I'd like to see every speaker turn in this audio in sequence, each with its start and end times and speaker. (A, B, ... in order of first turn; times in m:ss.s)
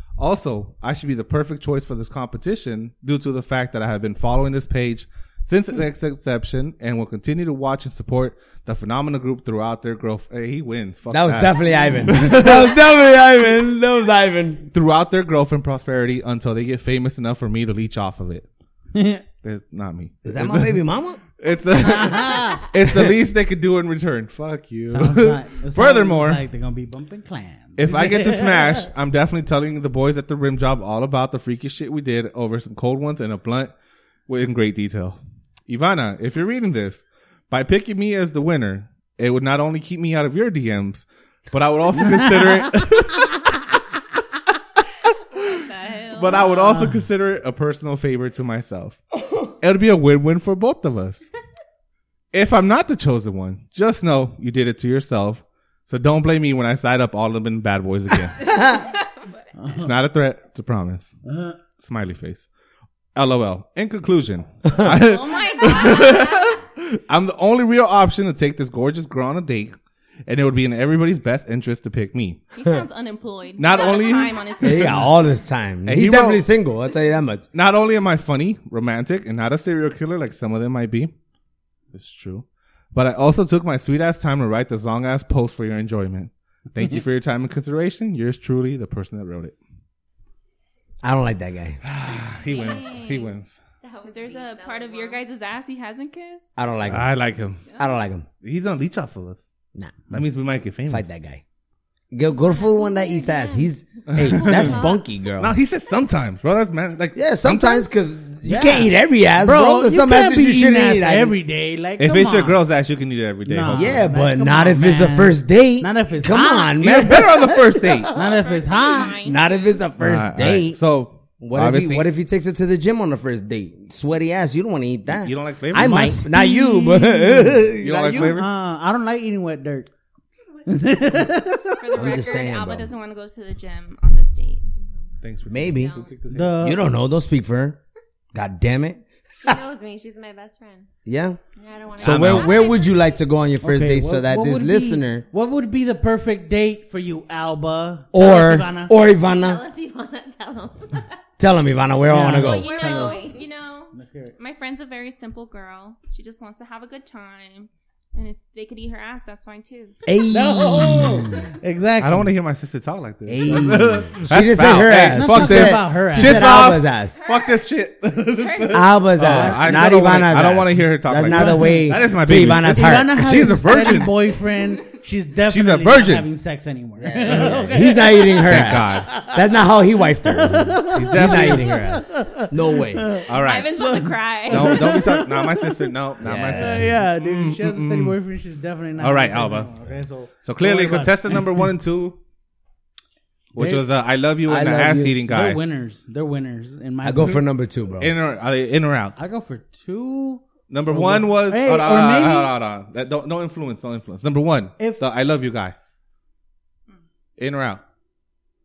0:00.2-0:12.8 A
0:11.1-0:14.6 B
0:14.7-0:18.5 A
0:18.9-0:19.2 C
0:19.4-0:26.4 A
0:20.2-0:21.2 B
0:21.8-0:22.6 C
0:24.9-0:28.9 C
0:27.8-0:33.7 A
0:34.3-0:43.7 A
0:42.0-0:42.8 C
0:45.3-0:49.0 A
0:45.4-0:46.4 D
0:46.3-0:47.0 C
0:49.6-0:51.2 A
0:52.3-0:58.6 A
0:58.5-0:59.0 D
0:59.6-0:59.9 C
0:59.7-1:01.1 A
1:01.2-1:01.6 C
1:01.8-1:02.5 A
1:03.1-1:09.8 A
1:04.6-1:05.0 B
1:04.9-1:06.5 D
1:05.6-1:06.3 E
1:10.3-1:12.4 A
1:12.5-1:15.1 D
1:13.6-1:15.1 A
1:14.6-1:17.4 B
1:15.8-1:16.4 A
1:17.5-1:21.1 A
1:21.9-1:29.6 A
1:31.0-1:31.8 B
1:31.8-1:33.6 A
1:32.5-1:33.3 D
1:32.6-1:33.0 E
1:33.8-1:35.2 E
1:34.0-1:36.5 D
1:36.6-1:37.1 B
1:36.8-1:37.7 A
1:37.7-1:38.2 B
1:38.4-1:39.5 A
1:39.7-1:40.1 B
1:40.1-1:41.1 A
1:40.9-1:41.4 B
1:42.1-1:45.6 B
1:42.3-1:45.0 E
1:44.1-1:47.9 A
1:47.2-1:51.3 B
1:48.4-1:52.6 C
1:52.0-1:54.1 A
1:53.4-1:56.8 C
1:53.7-1:58.1 B
1:56.8-1:58.1 A
1:58.1-1:59.8 D
1:58.1-1:59.2 C
1:59.2-2:00.8 B
2:00.0-2:02.0 A
2:01.4-2:08.3 B
2:05.1-2:06.1 A
2:05.7-2:09.9 C
2:07.8-2:08.5 A
2:10.6-2:11.9 C
2:11.8-2:14.7 D
2:11.9-2:12.9 B
2:15.2-2:16.7 A
2:15.5-2:16.0 B
2:15.6-2:16.1 E
2:16.3-2:16.8 C
2:16.6-2:17.8 B
2:18.3-2:19.6 B
2:19.4-2:20.9 E
2:21.0-2:21.4 B
2:21.6-2:23.1 E
2:22.0-2:22.7 A
2:22.0-2:25.2 B
2:23.6-2:28.9 C
2:28.1-2:29.6 B
2:29.1-2:31.2 E
2:31.4-2:32.7 B
2:32.0-2:33.3 C
2:32.4-2:39.9 D
2:32.4-2:33.4 E
2:33.9-2:34.3 C
2:40.0-2:41.5 B
2:40.3-2:42.3 C
2:42.0-2:54.3 A
2:43.3-2:47.2 B
2:45.0-2:46.6 C
2:47.1-2:47.6 D
2:48.3-2:48.9 D
2:48.7-2:53.2 B
2:49.2-2:49.7 C
2:51.3-2:59.4 C
2:55.4-2:56.3 A
2:57.0-3:03.1 B
2:57.3-2:57.7 A
2:58.4-2:59.1 A
3:00.2-3:05.9 C
3:00.9-3:01.7 A
3:03.3-3:03.7 A
3:03.3-3:05.0 D
3:04.5-3:08.2 A
3:06.2-3:06.9 B
3:06.5-3:11.7 C
3:09.0-3:09.7 A
3:10.4-3:12.2 A
3:13.5-3:15.6 A
3:13.6-3:13.8 C
3:14.4-3:15.2 B
3:15.2-3:17.4 C
3:17.0-3:18.1 B
3:18.0-3:19.2 A
3:19.2-3:22.5 C
3:20.7-3:25.7 A
3:24.8-3:25.0 C
3:27.4-3:27.8 A